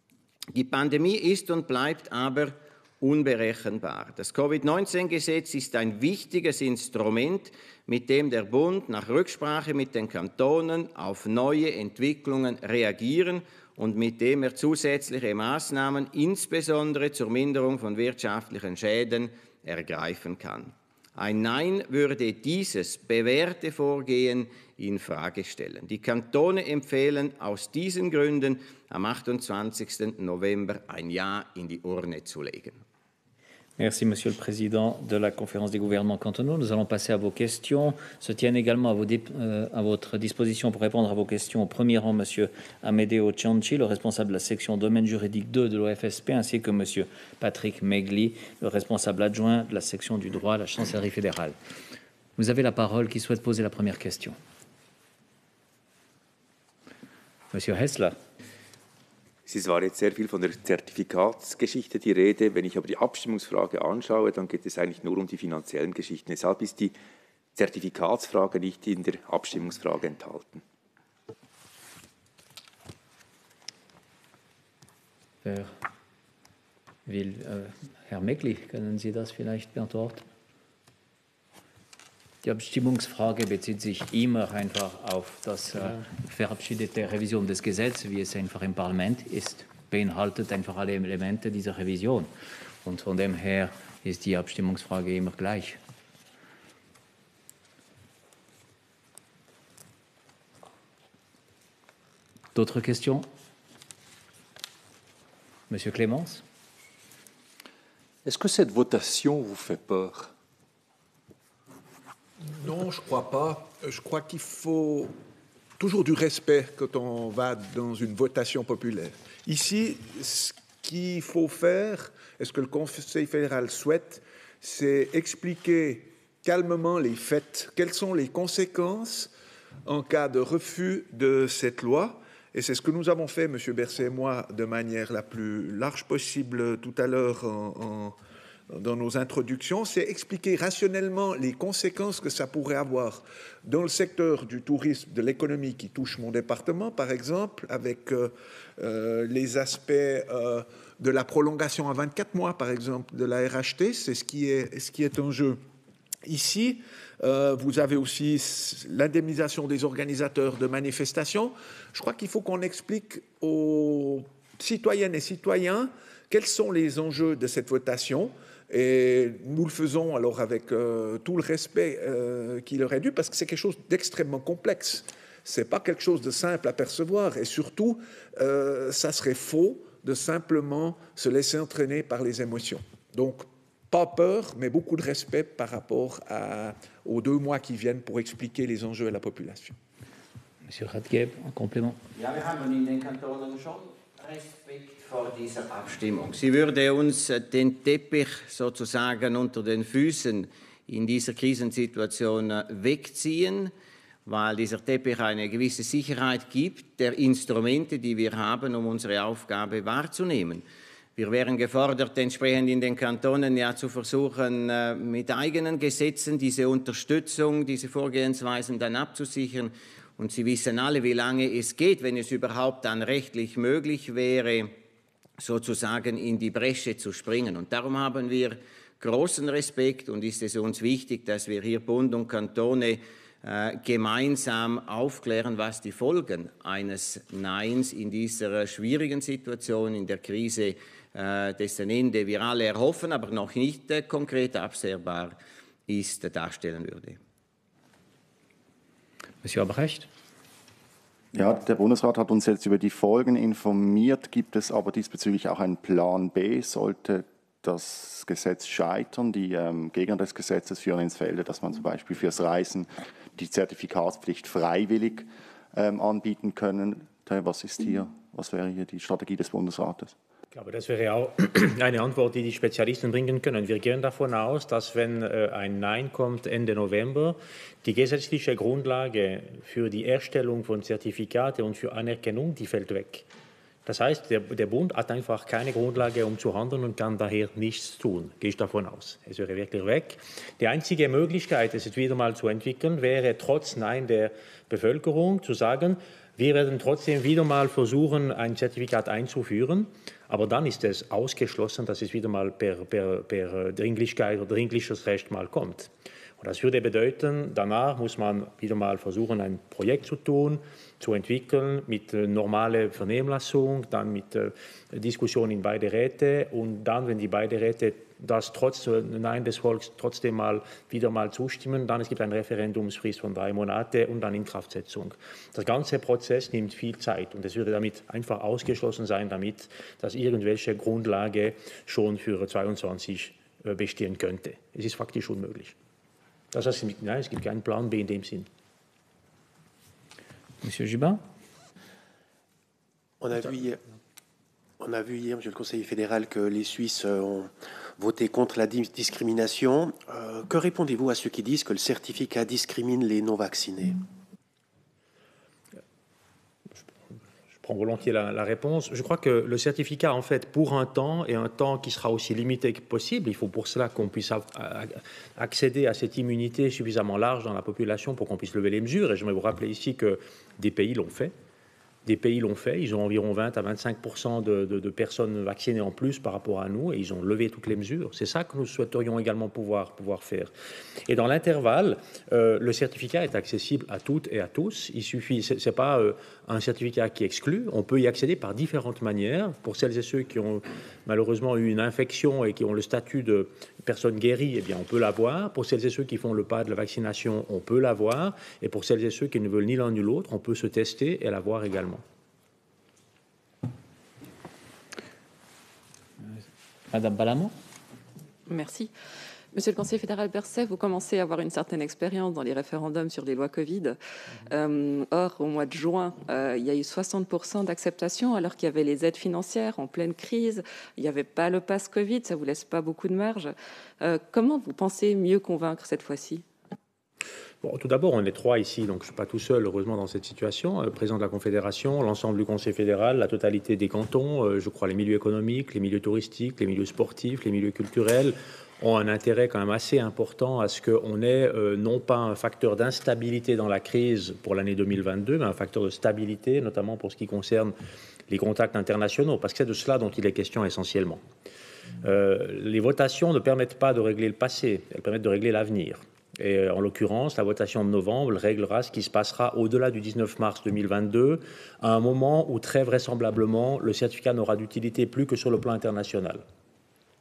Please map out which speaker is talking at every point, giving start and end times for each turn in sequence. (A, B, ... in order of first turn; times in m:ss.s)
0:00.5-0:32.8 A
0:33.8-0:51.6 B
0:52.4-0:54.4 B
0:57.5-0:58.2 B
0:59.4-1:06.9 C
1:07.5-1:10.6 C
1:15.4-1:15.7 B
1:17.0-1:20.2 B
1:22.4-1:32.3 B
1:32.8-1:35.8 B
1:42.5-1:43.3 B
1:45.7-1:46.4 B
1:48.2-1:50.3 D
1:52.5-1:55.1 E
1:55.8-2:09.3 E
2:09.8-2:18.2 E
2:18.7-2:35.6 E
2:36.2-3:09.8 E
3:10.6-3:12.0 B
3:12.1-3:23.7 A
3:24.2-3:30.6 A
3:31.2-3:44.7 A
3:45.4-4:05.4 A
4:05.9-4:07.2 A
4:09.4-4:10.1 B
4:11.3-4:30.1 F
4:30.5-4:43.3 G
4:43.8-5:35.7 G
5:36.5-5:38.5 G
5:40.6-5:41.2 B
5:43.2-5:43.8 H
5:44.8-5:54.0 H
5:57.5-6:11.3 G
6:12.0-6:20.5 G
6:21.1-6:42.0 G
6:46.9-6:47.5 B
6:48.5-6:48.9 I
6:49.5-7:06.4 I
7:07.6-7:27.7 G
7:28.3-7:31.2 G
7:32.0-7:46.4 G